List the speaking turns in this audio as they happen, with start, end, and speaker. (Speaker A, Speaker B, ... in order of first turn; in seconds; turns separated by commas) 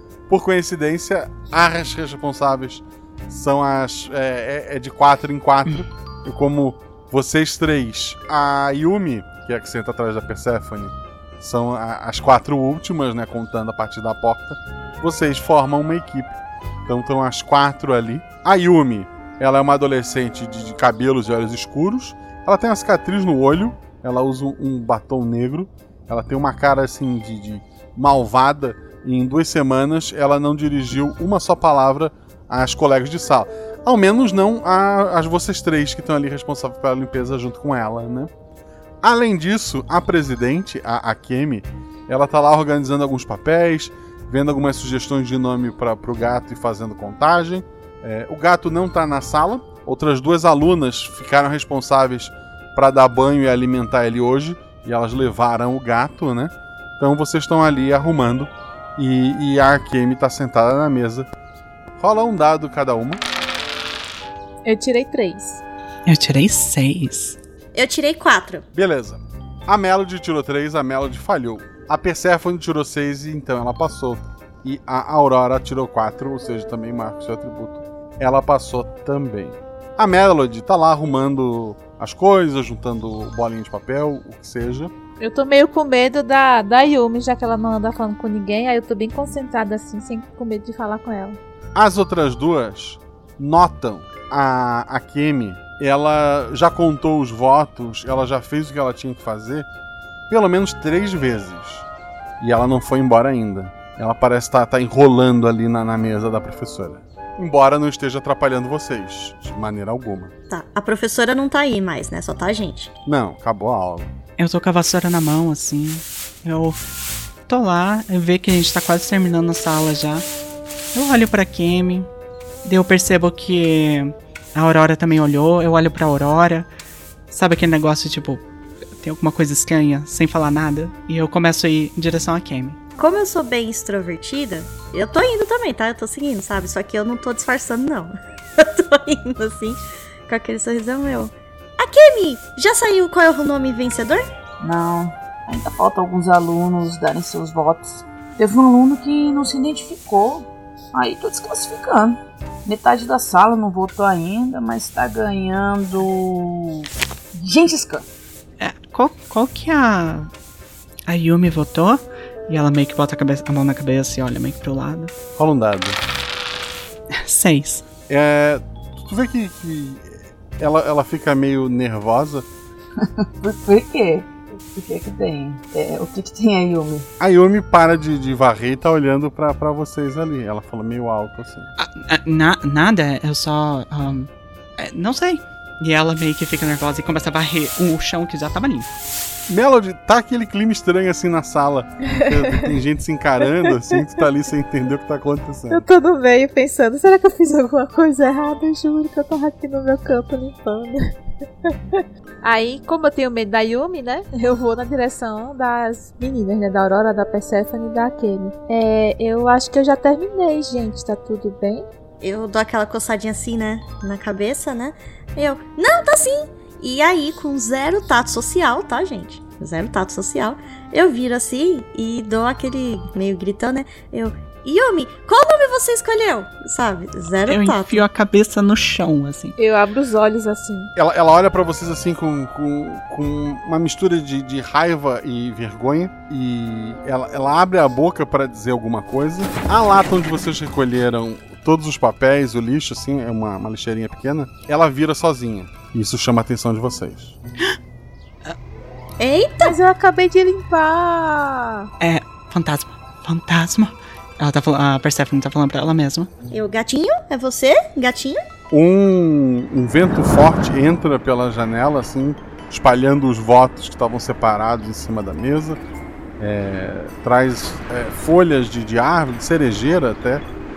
Speaker A: 0.3-38.3, Speaker A: 39.0-61.3, Speaker A: 62.0-63.2, Speaker B: 64.6-65.6, Speaker C: 66.0-67.4, Speaker D: 67.7-68.6, Speaker A: 68.7-84.9, Speaker B: 85.2-91.4, Speaker A: 91.7-99.7, Speaker A: 100.3-101.8, Speaker A: 102.4-110.3, Speaker D: 110.5-112.9, Speaker A: 113.0-114.1, Speaker C: 114.4-116.8, Speaker C: 117.5-120.2, Speaker C: 120.9-122.1, Speaker C: 122.6-126.7, Speaker C: 127.3-128.4, Speaker C: 129.0-132.8, Speaker D: 133.0-144.3, Speaker E: 144.6-158.1, Speaker C: 158.6-160.3, Speaker C: 161.1-165.1, Speaker A: 165.4-166.0, Speaker C: 167.1-167.8, Speaker A: 168.1-172.4, Speaker E: 173.4-177.1, Speaker A: 177.2-181.7, Speaker C: 181.8-188.9, Speaker A: 189.5-195.8, Speaker B: 195.7-201.1, Speaker B: 201.7-211.8, Speaker D: 212.2-228.0, Speaker C: 227.5-229.5, Speaker B: 229.6-230.9, Speaker A: 230.9-247.4, Speaker D: 249.2-249.8, Speaker B: 249.6-251.9, Speaker C: 252.0-256.3, Speaker D: 256.5-258.4, Speaker A: 258.7-265.8, Speaker A: 266.4-270.4